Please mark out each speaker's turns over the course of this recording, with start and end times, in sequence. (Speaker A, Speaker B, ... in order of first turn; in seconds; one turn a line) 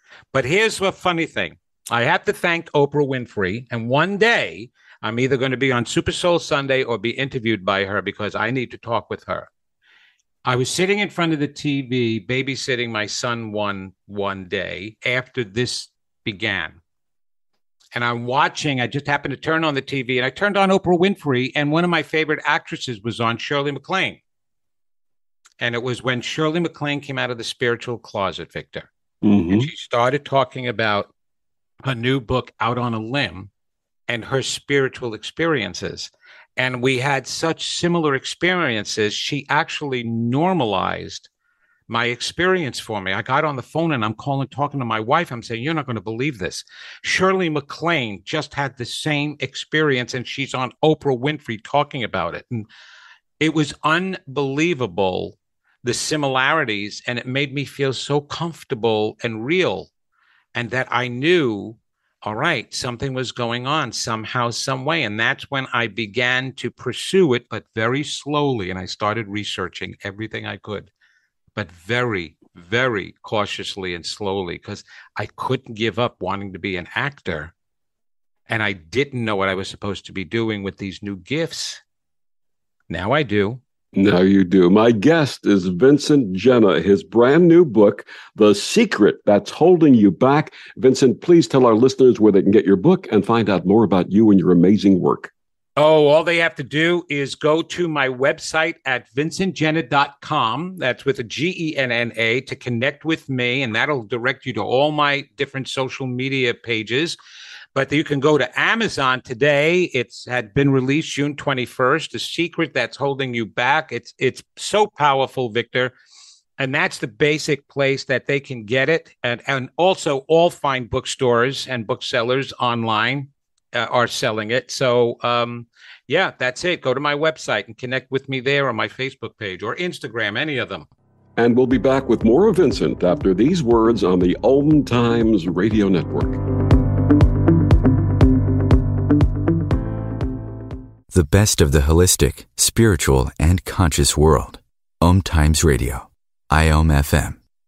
Speaker A: 0.3-9.5
Speaker A: 10.4-16.8
Speaker A: 17.9-24.2
Speaker A: 25.6-28.9
Speaker B: 29.2-29.7
Speaker A: 29.5-31.1
Speaker A: 31.8-33.5
Speaker A: 34.1-41.3
Speaker A: 41.9-52.7
Speaker A: 53.4-59.9
Speaker A: 60.5-70.9
Speaker A: 71.6-77.5
Speaker A: 78.5-81.8
Speaker A: 82.9-83.6
Speaker B: 84.0-95.3
Speaker A: 95.8-107.2
Speaker A: 107.8-115.9
Speaker A: 116.6-130.9
Speaker B: 131.4-136.4
Speaker C: 141.1-147.4